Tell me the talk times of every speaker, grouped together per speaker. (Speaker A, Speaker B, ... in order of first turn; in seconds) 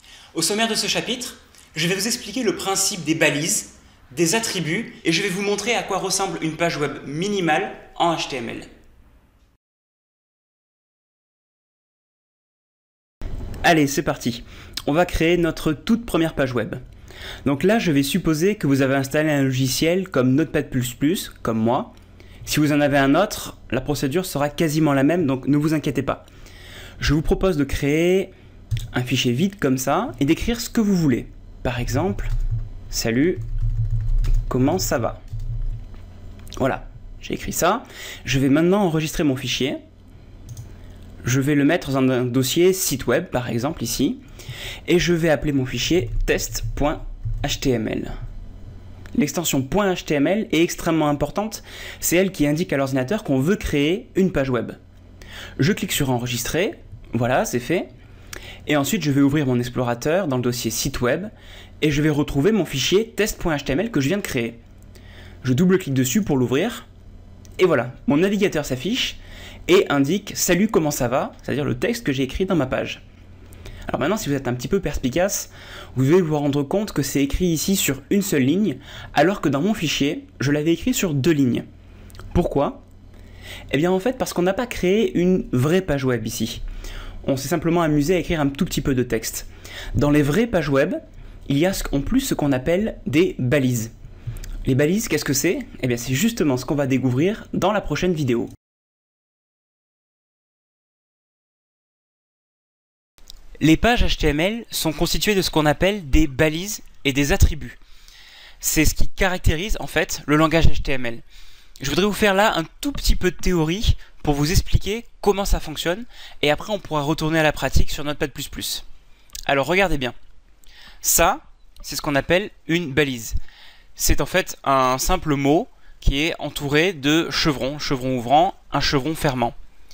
Speaker A: 0.3-8.7, 13.6-16.8, 17.4-21.9, 22.4-26.3, 27.0-28.3, 28.9-32.3, 32.9-33.4, 34.5-35.2, 36.6-39.8, 41.2-44.2, 44.9-48.1, 49.1-54.8, 55.6-57.9, 58.7-64.6, 65.4-66.9, 67.6-73.0, 73.9-81.7, 82.3-82.8, 83.7-86.6, 87.2-93.9, 94.7-98.5, 103.6-107.8, 108.6-111.2, 111.8-118.8, 119.5-120.2, 121.0-123.4, 124.0-129.6